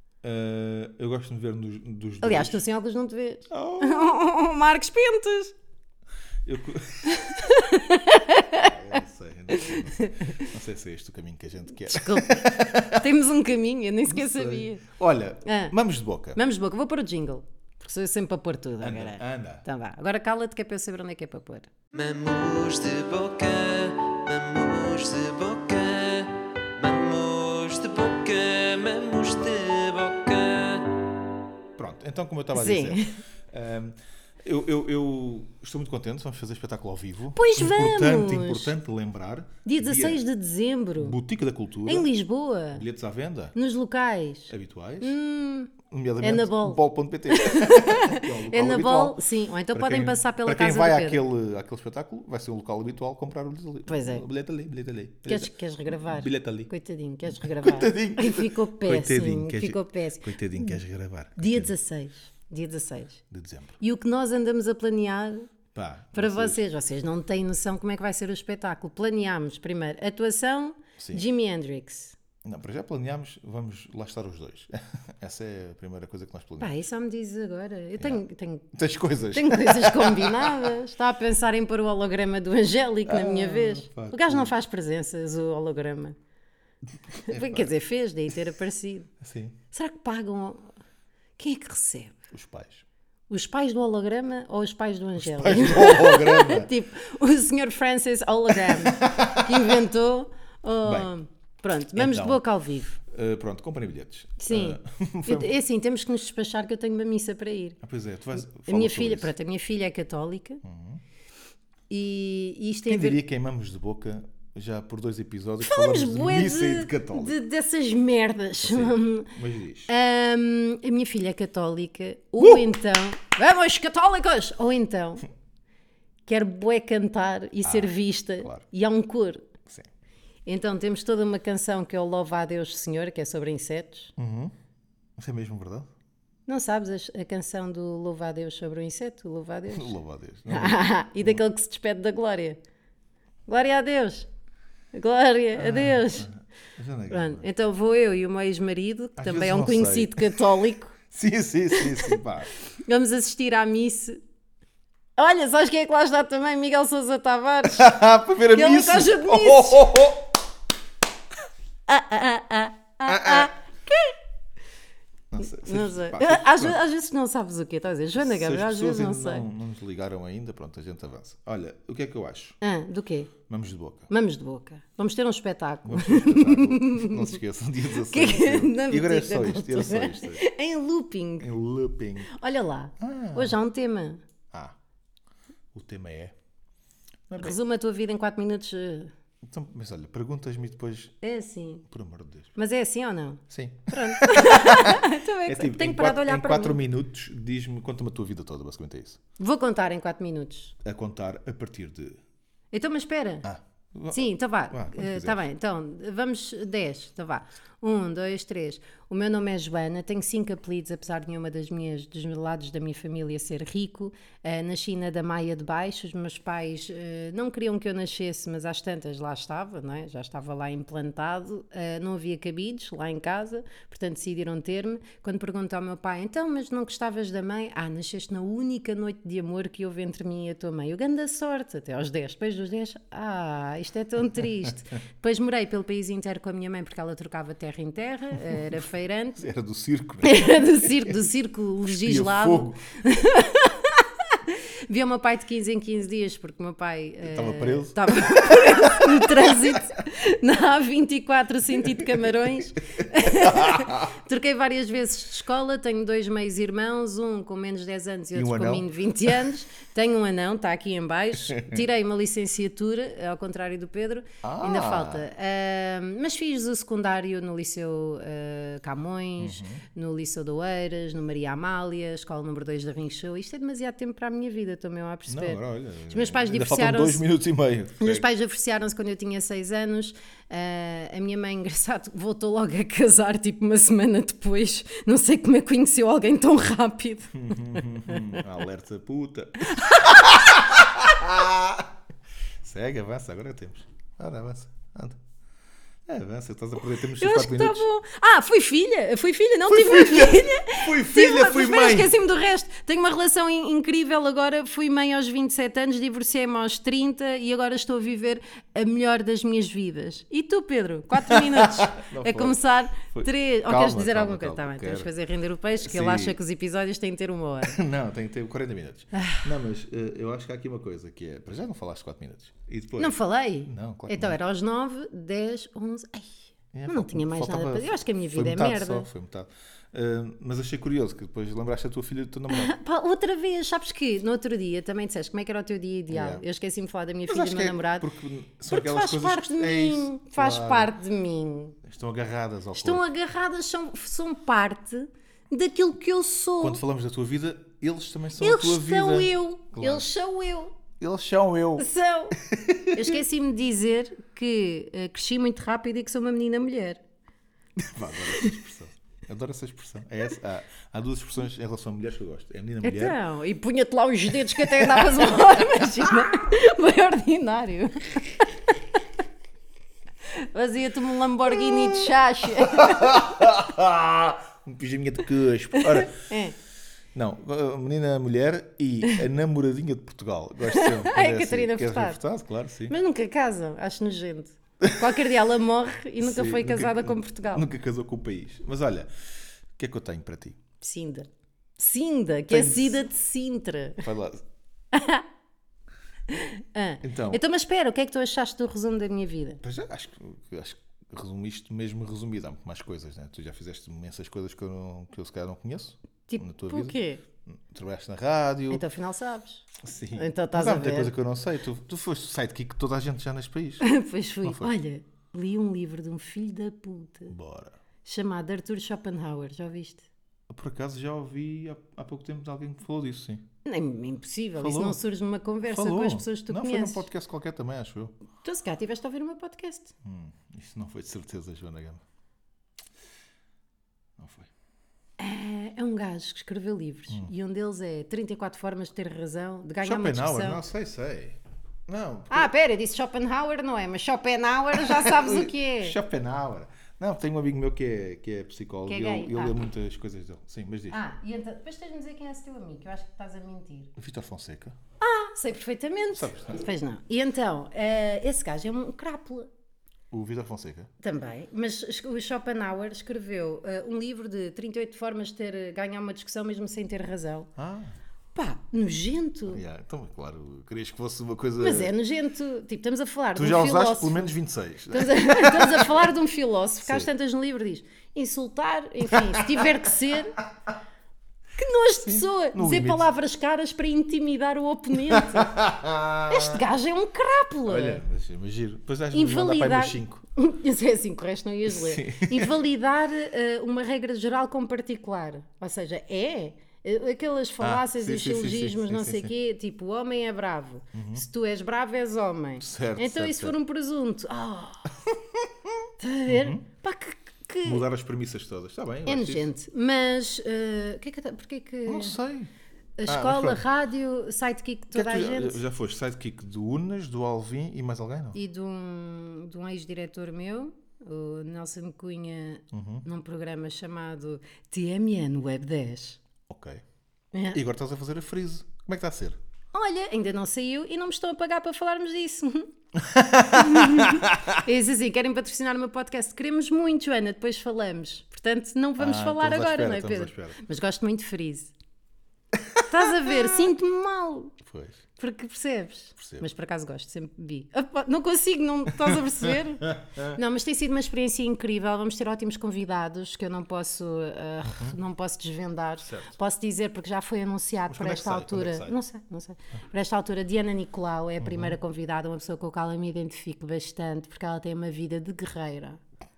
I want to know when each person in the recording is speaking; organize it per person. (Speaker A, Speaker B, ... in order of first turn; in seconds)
Speaker A: 0.2-2.6, 3.5-4.2, 6.4-7.5, 8.5-13.1, 14.1-16.4, 18.8-19.6, 31.8-40.2, 41.0-42.1, 42.7-43.5, 44.5-45.2, 45.8-49.2, 49.7-56.7, 57.3-61.7, 63.3-63.8, 65.8-66.6, 71.0-71.2, 72.4-76.8, 78.0-80.8, 83.1-84.5, 87.3-87.7, 89.2-89.6, 92.3-92.8, 95.2-96.7, 98.6-99.7, 100.8-101.1, 101.9-102.4, 103.0-105.5, 107.8-109.3, 110.6-111.0, 112.9-117.4, 118.6-119.9, 122.4-122.7, 127.6-128.6, 134.2-134.5, 135.2-135.9, 139.7-141.4, 145.6-147.4, 149.2-150.4, 151.1-152.5, 157.7-160.3, 163.1-163.5, 165.3-166.8, 168.2-172.6, 173.5-174.1, 175.8-180.4, 181.4-182.3, 183.0-183.6, 184.5-184.8, 185.7-186.3, 187.3-187.6, 189.4-191.2, 191.9-192.5, 193.5-199.2, 200.8-202.2, 203.4-205.4, 238.5-238.8, 239.3-241.2, 241.8-242.8, 247.2-249.8, 251.8-252.2, 253.2-254.1, 258.3-259.6, 261.5-261.8, 264.4-265.3, 269.4-269.8, 275.3-278.3, 287.3-291.9, 292.6-295.2, 296.1-297.9, 299.7-302.1, 311.3-315.1, 315.8-316.4, 317.6-324.4, 326.7-332.7, 336.1-336.4, 337.3-340.9, 341.8-343.0, 346.6-350.1, 350.9-353.2, 357.8-363.2, 364.6-365.6, 371.6-376.1, 377.1-382.9, 384.8-385.2, 386.2-389.1, 389.8-390.6, 392.5-393.0, 394.0-394.4, 397.0-397.4, 399.6-408.8, 409.8-413.9, 414.4-414.7, 417.3-417.8, 420.5-423.4, 424.6-425.0, 425.6-428.1, 430.0-432.0, 434.2-434.5, 439.8-442.5, 444.8-451.0, 454.0-454.8, 456.1-456.6, 460.1-460.9, 467.6-467.9, 469.5-471.9, 473.3-476.1, 476.8-477.1, 479.1-479.7, 482.1-483.1, 485.0-486.6, 487.7-490.2, 491.7-492.5, 497.6-499.3, 500.9-501.2, 502.6-503.6, 505.1-505.7, 506.3-506.6, 507.6-509.5, 511.9-512.5, 513.1-513.6, 514.9-518.4, 522.7-523.0, 526.5-526.8, 527.5-529.4, 533.0-534.6, 539.0-540.6, 544.6-545.0, 546.2-546.5, 548.9-550.4, 554.6-555.0, 556.0-556.3, 557.9-558.9, 561.4-561.8
Speaker B: 2.2-5.5, 7.1-8.7, 9.5-10.5, 11.8-14.8, 15.4-15.8, 16.3-21.7, 32.5-33.2, 37.4-38.7, 39.6-41.2, 41.9-42.8, 43.5-51.2, 53.9-54.2, 55.2-60.8, 61.4-63.2, 63.8-65.5, 66.2-72.2, 76.6-78.7, 79.3-86.2, 87.2-89.1, 89.7-90.7, 91.4-92.2, 93.3-103.0, 104.4-107.8, 108.4-110.6, 111.9-113.2, 115.6-119.3, 119.9-125.3, 126.2-129.5, 130.4-134.1, 136.5-139.9, 140.5-142.6, 143.5-144.3, 144.9-146.3, 147.1-150.9, 151.7-152.2, 152.8-154.2, 155.2-157.9, 158.5-160.0, 161.9-164.2, 165.4-169.4, 172.6-173.3, 174.1-177.4, 177.9-181.5, 182.3-184.2, 187.4-189.1, 191.2-191.8, 192.6-196.8, 199.4-200.7, 202.7-203.5, 204.1-239.4, 240.2-277.2, 278.0-288.4, 289.7-290.6, 296.9-317.8, 319.1-319.4, 323.0-329.1, 332.5-338.1, 338.7-341.8, 342.7-346.8, 348.4-350.8, 351.8-352.4, 352.9-357.0, 362.8-368.8, 370.3-373.4, 375.8-376.6, 380.7-382.2, 382.9-387.7, 390.8-394.1, 394.9-395.2, 396.3-399.6, 406.3-407.2, 408.7-411.1, 413.8-417.3, 418.0-420.1, 423.6-427.1, 428.4-429.9, 435.2-440.6, 442.3-446.0, 448.9-449.6, 450.9-453.9, 455.0-459.5, 461.0-467.5, 468.3-469.6, 471.6-474.3, 474.9-480.4, 481.6-485.6, 486.3-488.0, 489.1-504.9, 506.0-507.8, 509.1-512.2, 513.0-515.6, 518.3-526.2, 527.3-527.6, 529.7-532.7, 533.5-541.7, 542.8-544.6, 545.2-566.0
Speaker C: 21.9-30.9